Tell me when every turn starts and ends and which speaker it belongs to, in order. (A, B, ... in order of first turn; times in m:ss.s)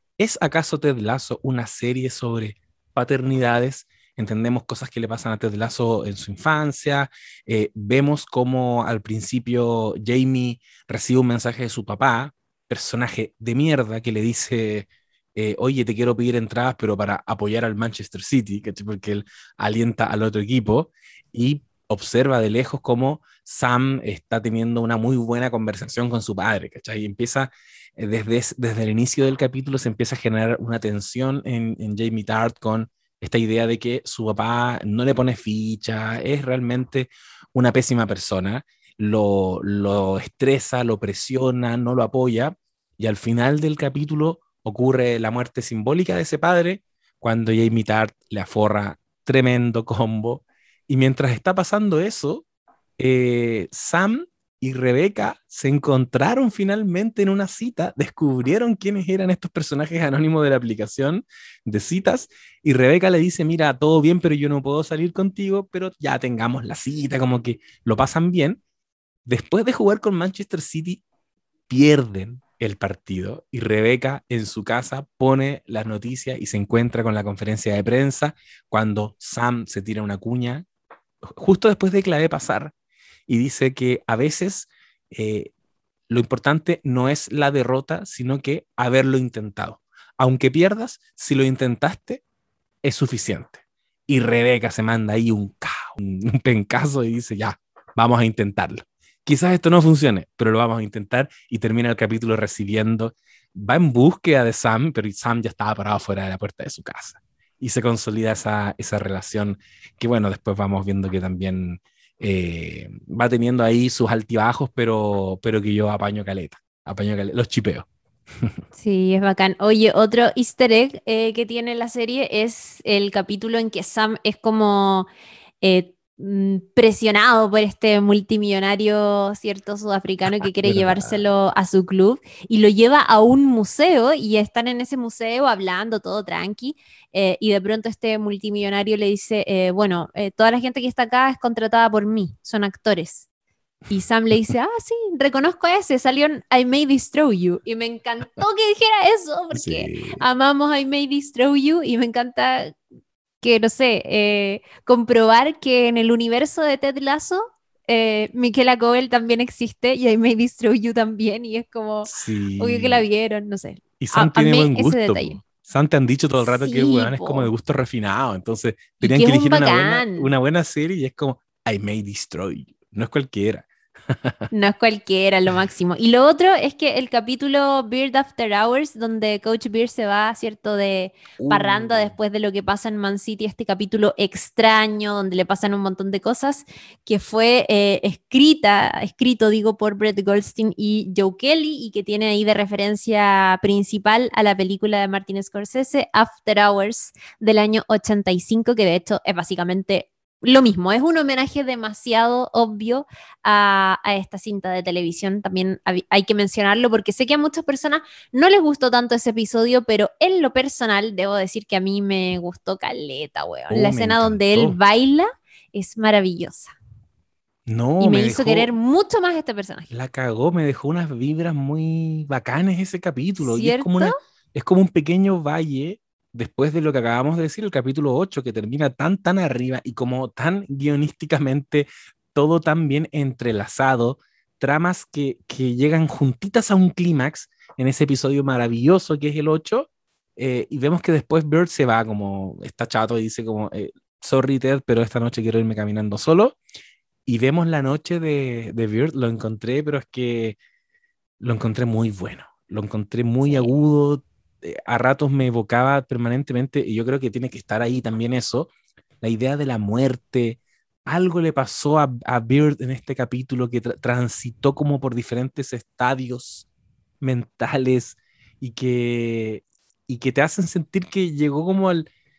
0:00.2-0:52.4 A
0:53.0-1:08.6 A
1:09.2-1:11.0 A
1:11.7-1:20.6 A
1:21.3-1:22.7 A
1:23.3-1:25.5 A
1:26.1-1:32.2 A
1:32.8-1:57.9 A
1:58.7-2:05.1 B
2:05.6-2:23.3 B
2:10.4-2:11.2 A
2:23.9-2:32.8 B
2:29.5-2:30.2 A
2:33.4-2:45.4 B
2:42.0-2:43.0 A
2:44.0-2:54.3 A
2:46.4-2:47.5 B
2:49.0-2:50.3 B
2:54.5-3:36.7 B
3:01.4-3:02.2 A
3:33.7-3:34.8 A
3:37.7-3:38.7 A
3:38.0-3:39.9 B
3:39.9-4:06.6 A
3:43.4-3:44.2 B
4:07.2-4:10.6 A
4:11.4-4:18.7 A
4:19.2-4:26.7 A
4:27.2-4:32.1 A